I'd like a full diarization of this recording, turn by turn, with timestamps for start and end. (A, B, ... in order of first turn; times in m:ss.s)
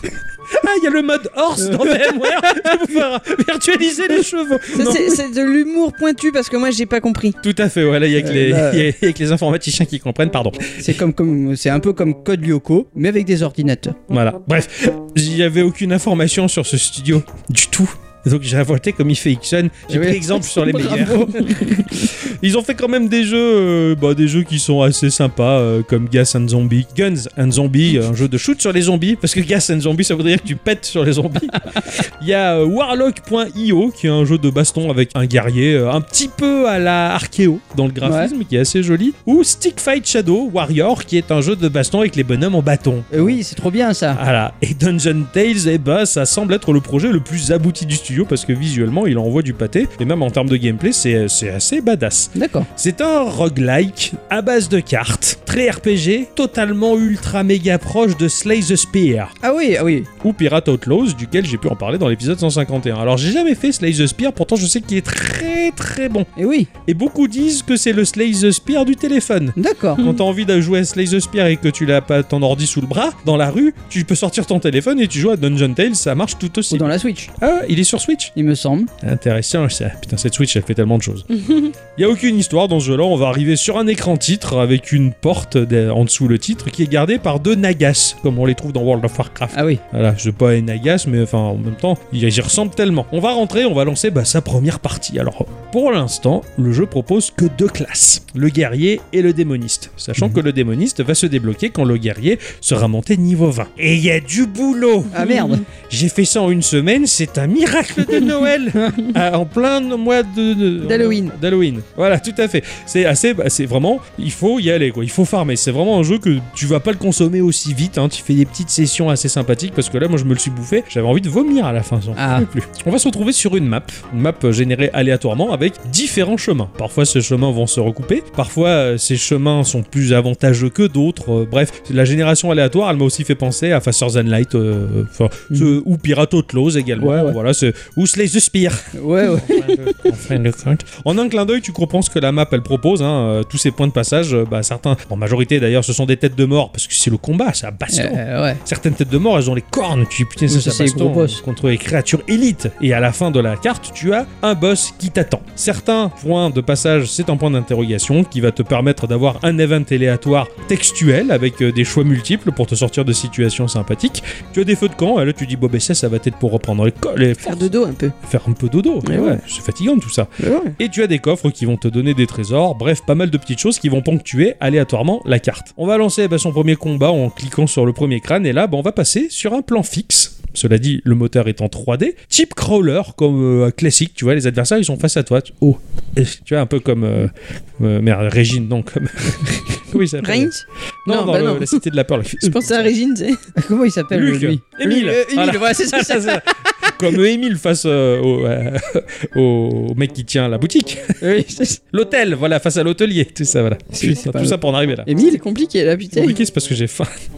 0:00.5-0:05.2 A
0:01.6-0:02.8 B
0:04.7-0:07.4 C
0:07.4-0:10.9 A
0:08.2-0:08.9 B
0:10.8-0:14.0 B
0:14.1-0:43.4 A
0:19.9-0:21.8 B
0:38.0-0:38.3 B
0:43.1-0:44.2 B
0:44.1-0:59.3 A
0:52.3-0:52.7 B
0:59.4-1:00.1 B
1:00.2-1:06.3 A
1:06.4-1:06.7 B
1:06.8-1:18.3 A
1:09.6-1:10.1 B
1:16.7-1:17.3 B
1:18.3-1:18.9 B
1:19.0-1:21.3 A
1:21.4-1:21.7 C
1:22.0-2:47.7 A
1:29.5-1:29.8 B
1:45.1-1:45.6 B
1:45.1-1:45.6 C
1:50.8-1:51.3 C
2:02.2-2:02.5 B
2:17.0-2:17.4 B
2:18.9-2:19.7 B
2:27.9-2:28.6 B
2:30.5-2:31.4 B
2:47.4-2:48.1 C
2:48.2-3:10.5 A
2:49.0-2:49.4 C
2:50.4-2:50.8 C
3:10.2-3:11.8 C
3:11.0-3:12.9 A
3:12.4-3:13.4 C
3:13.6-3:16.7 B
3:14.1-3:21.2 A
3:21.2-3:21.8 B
3:21.9-3:25.1 A
3:24.0-3:25.4 B
3:25.1-3:26.4 C
3:26.1-3:27.1 A